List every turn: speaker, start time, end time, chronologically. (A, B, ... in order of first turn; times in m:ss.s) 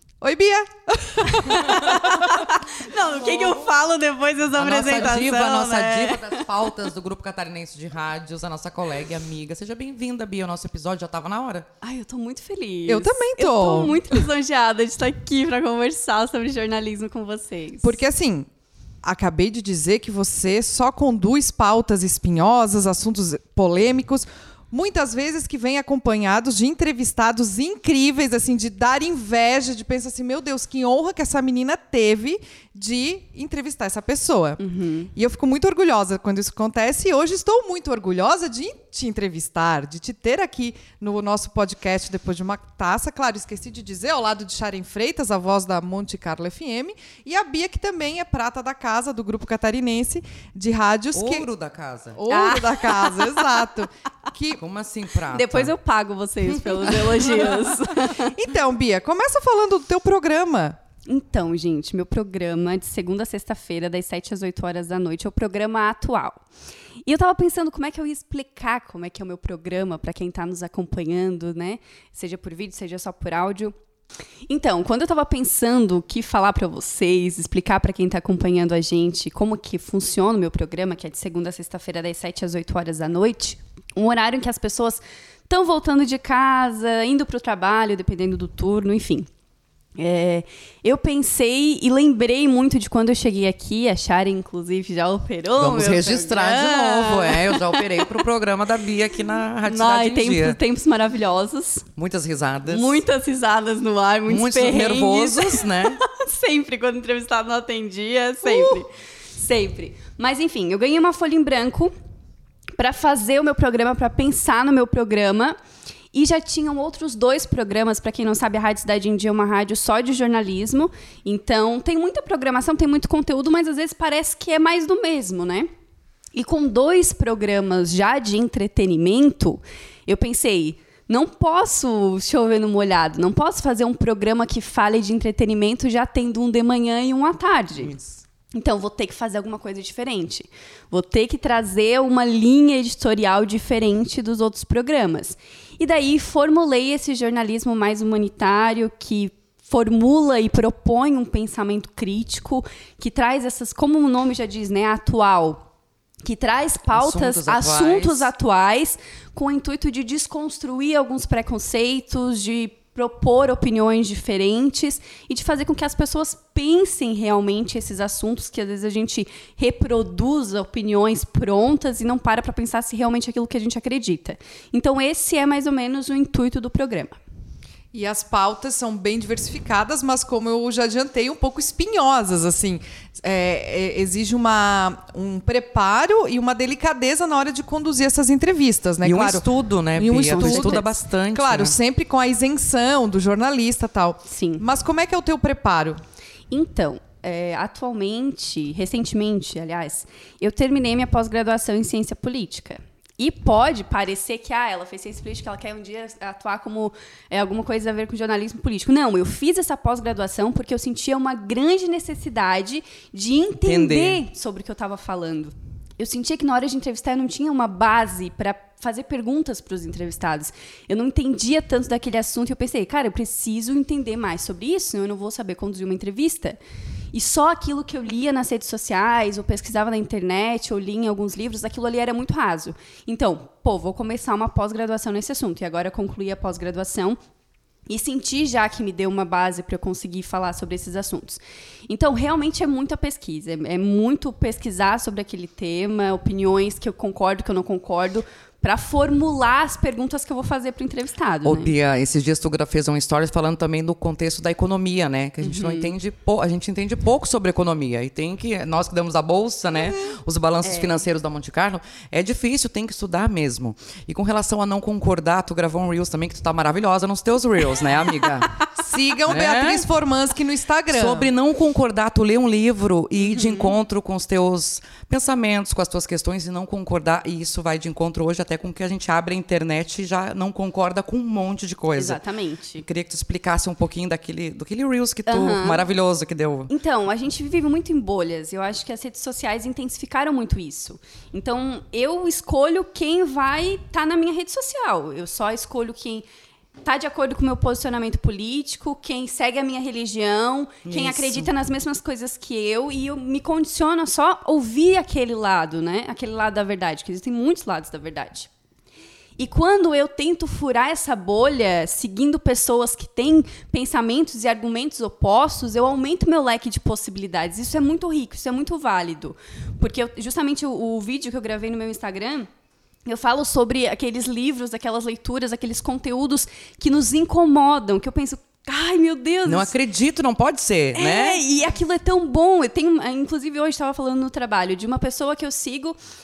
0:00.2-0:02.5 A
0:01.4-0:06.4 B
0:03.3-0:03.6 C
0:04.6-0:11.6 C
0:11.8-0:18.0 B
0:12.8-0:14.2 A
0:17.8-0:18.5 A
0:19.0-0:34.6 A
0:34.6-0:35.1 B
0:35.1-0:51.5 A
0:51.1-0:52.2 C
0:52.1-0:54.6 A
0:52.3-0:53.4 B
0:54.6-0:55.7 C
0:55.3-0:58.3 B
0:56.5-0:57.5 C
0:58.1-1:00.8 A
1:01.0-1:06.4 B
1:07.0-1:13.7 B
1:14.5-1:29.3 B
1:30.0-1:38.2 B
1:35.6-1:40.6 C
1:39.6-1:41.9 B
1:42.0-1:43.0 C
1:42.7-1:51.9 B
1:44.3-1:46.0 C
1:52.8-1:55.6 B
1:56.1-2:05.7 B
2:06.3-2:17.9 B
2:17.8-2:18.2 C
2:18.5-2:35.6 B
2:36.2-2:57.2 B
2:36.9-2:38.3 C
2:57.9-3:16.0 A
3:09.0-3:11.7 C
3:10.3-3:10.8 B
3:14.3-3:14.6 B
3:16.5-3:46.6 B
3:33.6-3:34.2 C
3:47.1-3:57.2 B
3:57.9-4:11.7 B
4:11.4-4:28.6 C
4:15.4-4:15.9 B
4:20.6-4:20.9 B
4:28.8-4:31.3 A
4:29.3-4:29.8 C
4:30.9-4:42.2 C
4:33.2-4:33.7 B
4:42.0-4:42.8 B
4:42.8-4:46.7 C
4:45.3-4:45.8 B
4:46.7-4:56.2 B
4:56.8-5:08.5 B
5:00.8-5:01.5 C
5:09.4-5:22.5 B
5:23.0-5:29.7 B
5:29.4-5:31.4 C
5:30.9-5:36.0 B